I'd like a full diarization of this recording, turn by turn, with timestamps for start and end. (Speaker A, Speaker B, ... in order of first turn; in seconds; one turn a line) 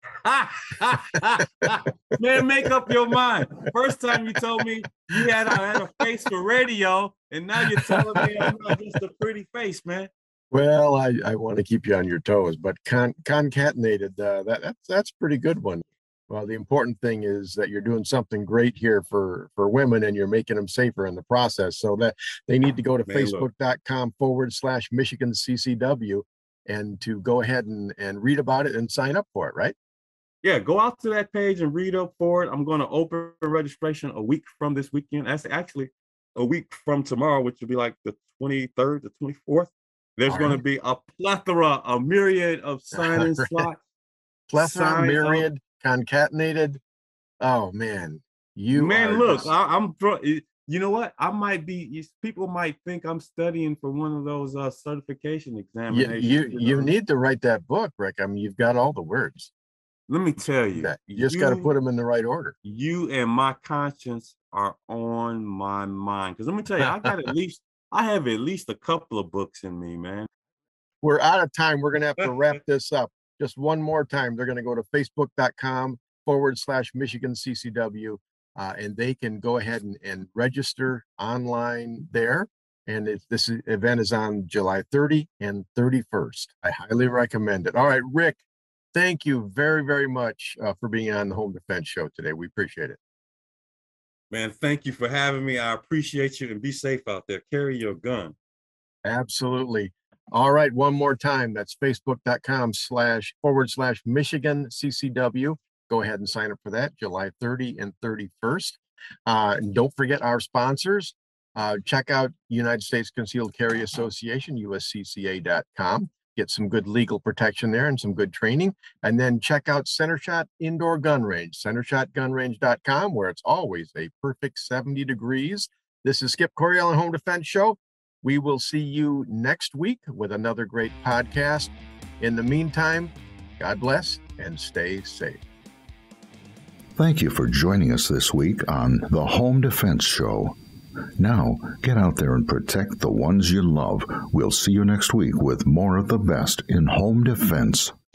Speaker A: 0.2-10.1
Speaker B: 10.5-29.8
Speaker A: 23.1-23.5
Speaker A: 30.4-43.8
Speaker B: 40.3-40.6
Speaker B: 42.9-43.6
Speaker B: 44.5-46.8
Speaker A: 44.6-45.5
Speaker B: 47.4-49.5
Speaker A: 48.7-56.9
Speaker B: 55.9-59.5
Speaker A: 60.1-61.7
Speaker B: 60.4-62.5
Speaker A: 62.6-70.3
Speaker B: 71.0-88.4
Speaker B: 88.9-93.0
Speaker A: 94.3-98.4
Speaker B: 99.0-135.4
Speaker C: 137.0-140.6
Speaker C: 141.2-147.9